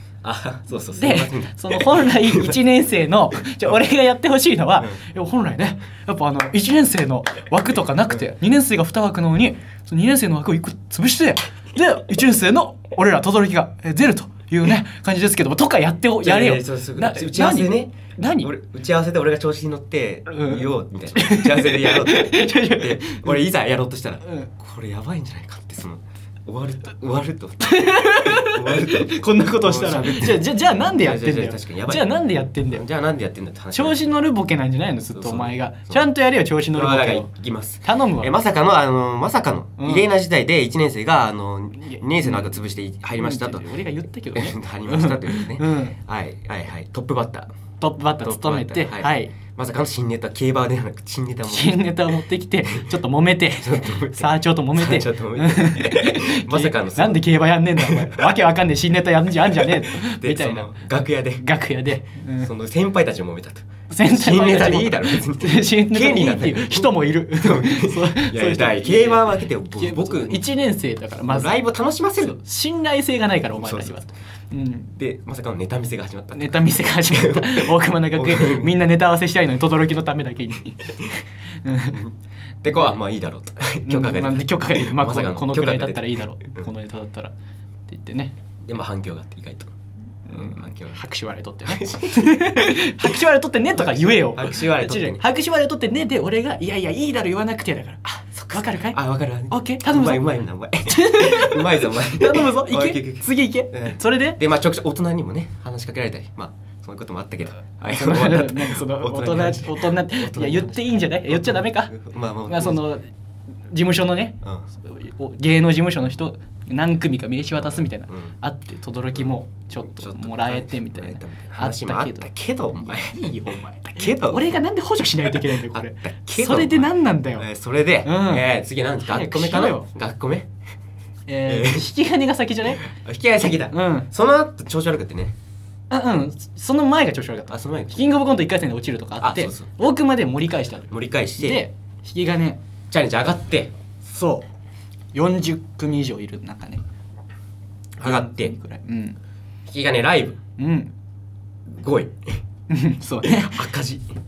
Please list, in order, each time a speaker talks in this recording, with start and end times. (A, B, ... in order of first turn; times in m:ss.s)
0:00.2-0:02.6 A
0:00.9-0:18.5 B
0:16.2-0:34.1 A
0:20.3-0:23.4 B
0:24.2-0:24.5 B
0:27.6-0:32.8 B
0:33.7-0:37.3 B
0:35.1-0:36.1 A
0:36.7-0:43.8 A
0:37.8-0:38.3 B
0:39.8-0:40.1 B
0:41.8-0:42.6 B
0:43.2-0:46.0 B
0:44.3-0:47.5 A
0:47.8-0:49.3 B
0:48.2-0:52.9 A
0:51.4-1:00.8 B
0:53.6-0:58.4 A
0:59.4-1:01.5 A
1:01.4-1:02.5 B
1:02.4-1:10.5 A
1:03.9-1:11.6 B
1:11.3-1:12.4 A
1:12.2-1:14.9 B
1:13.6-1:14.1 A
1:14.9-1:18.8 A
1:16.3-1:22.0 B
1:21.9-1:26.7 A
1:22.7-1:23.0 B
1:23.8-1:27.3 B
1:27.9-1:28.4 B
1:28.7-1:29.7 A
1:30.3-1:40.3 B
1:30.3-1:31.0 A
1:31.7-1:33.1 A
1:33.8-1:35.2 A
1:38.3-1:52.9 A
1:40.9-1:44.4 B
1:47.8-1:51.9 B
1:52.5-1:53.1 B
1:53.7-2:07.5 B
1:57.6-1:58.3 A
1:59.2-2:04.6 A
2:05.2-2:10.5 A
2:08.0-2:08.5 B
2:09.0-2:09.9 B
2:11.3-2:12.9 B
2:11.4-2:11.9 A
2:12.7-2:15.4 A
2:13.7-2:14.1 B
2:15.9-2:22.6 B
2:17.5-2:18.0 A
2:19.2-2:19.7 A
2:20.9-2:21.6 A
2:22.9-2:23.7 A
2:24.0-2:24.4 B
2:25.1-2:26.8 B
2:28.0-2:28.6 A
2:28.0-2:29.2 B
2:29.7-2:30.4 A
2:30.6-2:30.9 B
2:31.7-2:32.4 A
2:32.7-2:33.7 B
2:33.2-2:34.1 A